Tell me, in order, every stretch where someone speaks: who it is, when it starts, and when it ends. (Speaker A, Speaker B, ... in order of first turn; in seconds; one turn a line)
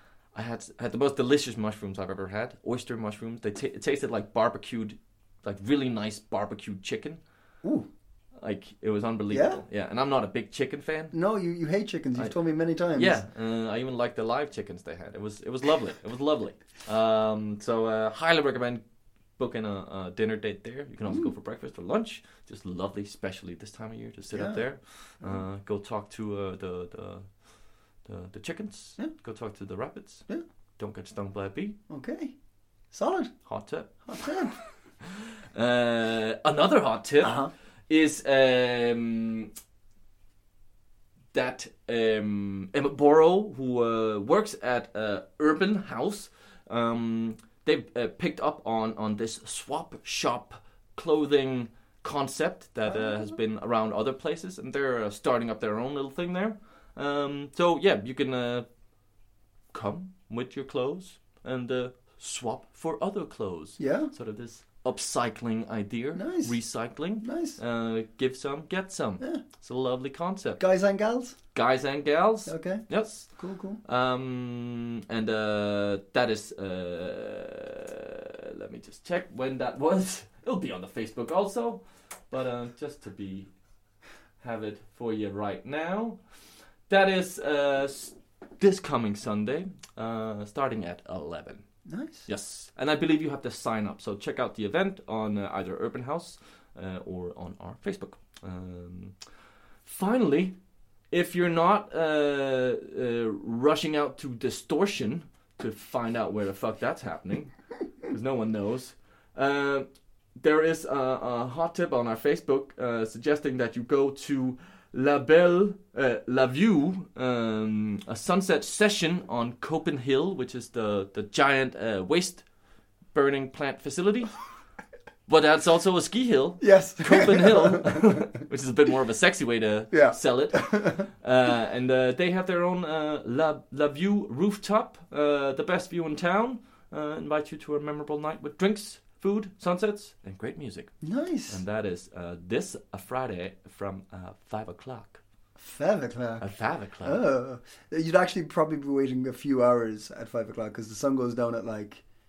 Speaker A: 0.3-7.2
Speaker B: 7.6-7.9
Speaker A: 8.4-11.2
Speaker B: 9.3-9.6
Speaker B: 11.1-13.2
Speaker A: 12.9-27.5
Speaker B: 21.1-21.3
Speaker B: 24.3-24.7
Speaker A: 28.0-31.8
Speaker B: 31.9-32.3
Speaker B: 32.9-33.4
Speaker A: 33.5-34.1
Speaker B: 34.0-34.6
Speaker A: 35.5-39.5
Speaker B: 37.2-37.5
Speaker A: 41.3-58.7
Speaker A: 59.7-70.6
Speaker B: 63.8-64.1
Speaker B: 66.2-66.6
Speaker B: 67.2-67.6
Speaker B: 70.6-71.4
Speaker A: 71.5-83.5
Speaker B: 72.5-73.8
Speaker A: 84.4-86.2
Speaker A: 86.9-91.7
Speaker B: 91.9-92.3
Speaker A: 92.3-99.2
Speaker A: 99.8-100.6
Speaker A: 101.1-122.5
Speaker A: 123.1-124.3
Speaker A: 125.3-145.2
Speaker B: 126.6-128.3
Speaker B: 129.9-131.1
Speaker B: 141.0-141.6
Speaker B: 145.6-146.5
Speaker A: 146.4-147.2
Speaker B: 147.0-152.0